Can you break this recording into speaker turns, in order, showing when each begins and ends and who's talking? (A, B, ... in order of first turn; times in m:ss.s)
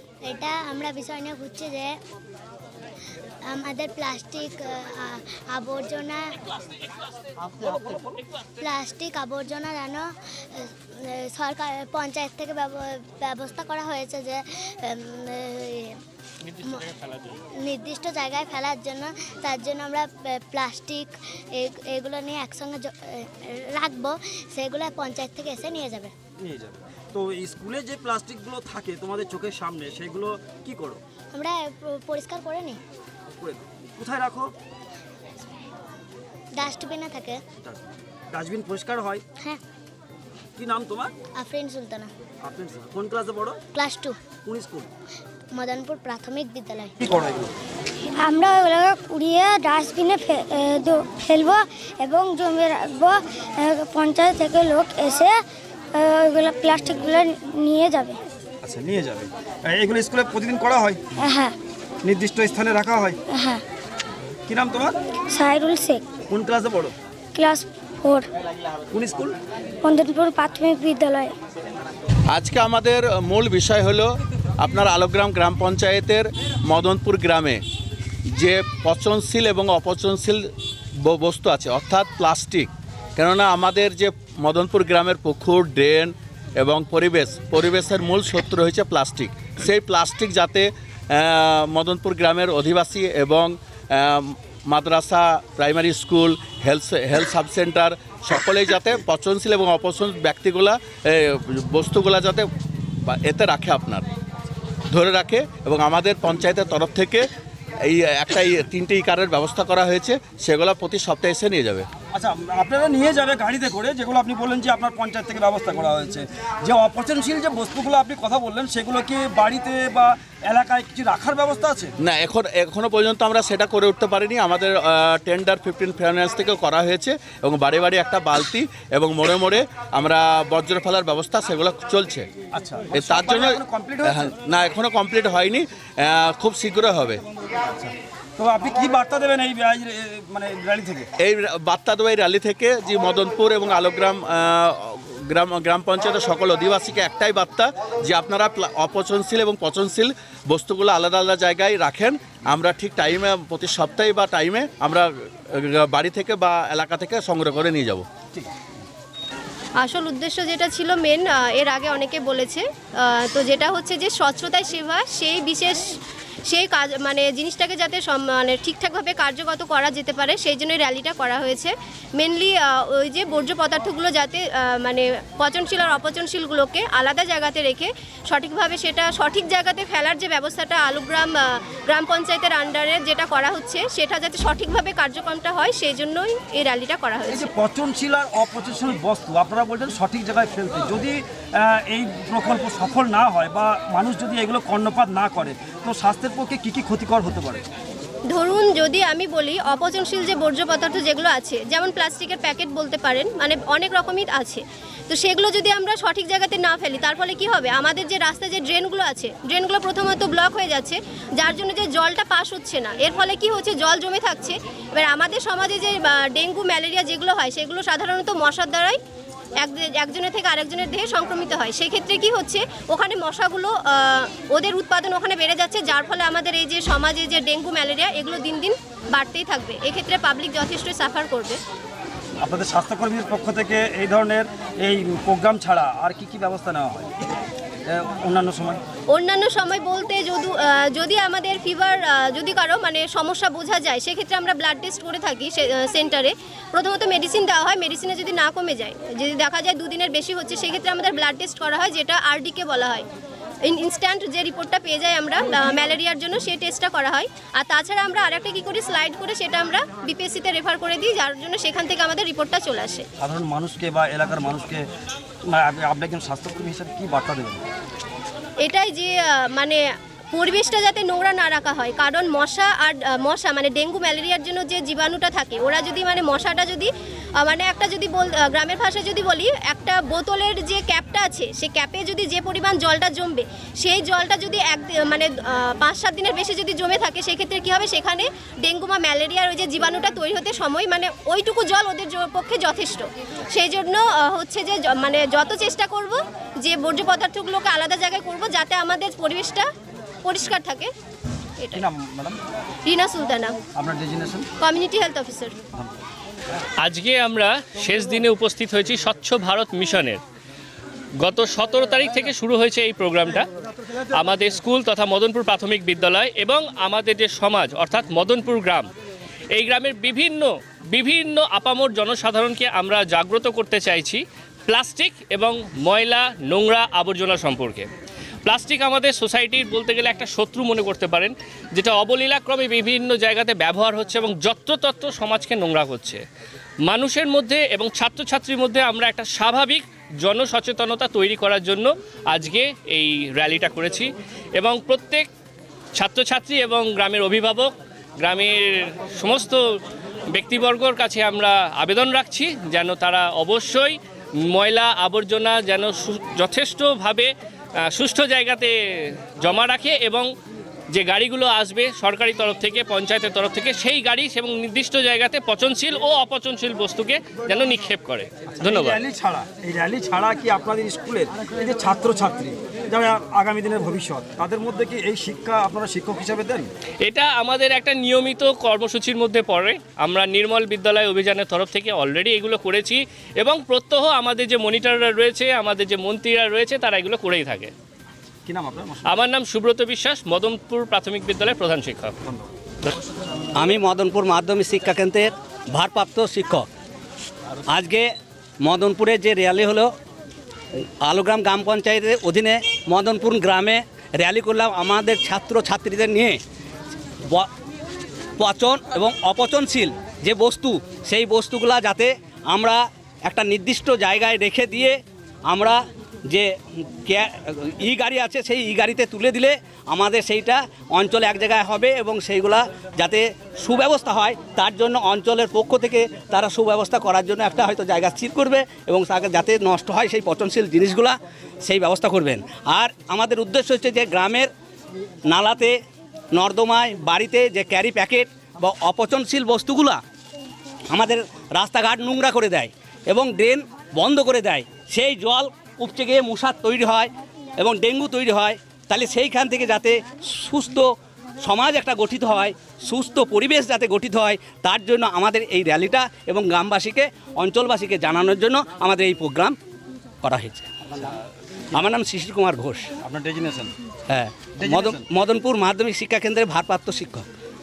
0:00.3-0:01.9 A
0:03.5-0:06.2 A
0:07.7-0:08.1 B
0:08.6-0:16.0 A
0:17.6-0:26.1 A
0:26.4-0:31.0 C
0:31.3-0:32.8 A
0:33.4-0:34.5 C
0:36.6-0:37.4 A
0:37.6-0:39.2 C
0:40.6-0:41.1 C
0:41.4-0:42.1 A
0:42.4-0:43.6 C
0:43.7-0:44.1 A
0:44.4-0:44.9 C
0:45.5-0:47.0 A
0:47.0-0:47.5 C
0:48.2-0:55.4 D
0:56.0-0:58.2 D
0:58.6-1:01.0 C
1:01.2-1:01.5 D
1:02.0-1:03.2 C
1:03.3-1:03.6 D
1:04.5-1:05.0 C
1:05.3-1:06.0 D
1:06.3-1:07.0 C
1:07.3-1:08.3 D
1:08.9-1:09.4 C
1:09.8-1:11.3 D
1:12.3-1:17.6 E
1:18.3-1:20.4 E
1:21.0-1:42.5 E
1:43.1-1:44.0 E
1:44.9-1:47.2 E
1:47.8-1:51.8 E
1:52.1-2:01.9 C
2:02.0-2:12.2 E
2:12.5-2:14.3 C
2:12.9-2:17.2 E
2:17.6-2:21.1 C
2:21.2-2:38.0 E
2:39.8-2:45.9 F
2:46.5-3:07.5 F
3:07.3-3:17.6 C
3:18.3-3:39.0 F
3:39.6-3:51.6 F
3:52.4-3:57.1 C
3:57.9-3:58.8 C
3:59.1-4:13.0 F
4:13.6-4:23.0 F
4:23.2-4:24.8 C
4:25.5-4:27.6 C
4:28.6-4:29.8 F
4:30.3-4:59.7 F
5:00.2-5:00.9 F
5:01.7-5:02.4 C
5:02.9-5:03.6 F
5:03.8-5:04.5 C
5:04.6-5:05.6 F
5:06.8-5:10.2 G
5:11.2-5:13.5 G
5:14.2-5:18.9 G
5:19.5-5:27.9 G
5:28.4-5:36.2 G
5:36.9-5:45.3 G
5:46.0-5:49.8 G
5:50.3-5:54.0 G
5:54.5-5:57.3 G
5:57.9-6:00.3 G
6:00.9-6:09.0 G
6:08.5-6:16.7 C
6:17.0-6:27.7 G
6:28.4-6:29.2 C
6:29.1-6:32.1 G
6:33.6-6:36.7 B
6:37.7-6:39.9 B
6:41.0-6:46.4 B
6:48.4-6:56.5 B
6:57.0-7:14.5 B
7:15.3-7:15.8 B
7:16.3-7:20.0 B
7:20.9-7:39.6 B
7:40.2-7:40.7 B
7:41.7-7:42.9 B
7:43.0-7:43.7 C
7:44.1-7:47.3 B
7:44.6-7:45.1 C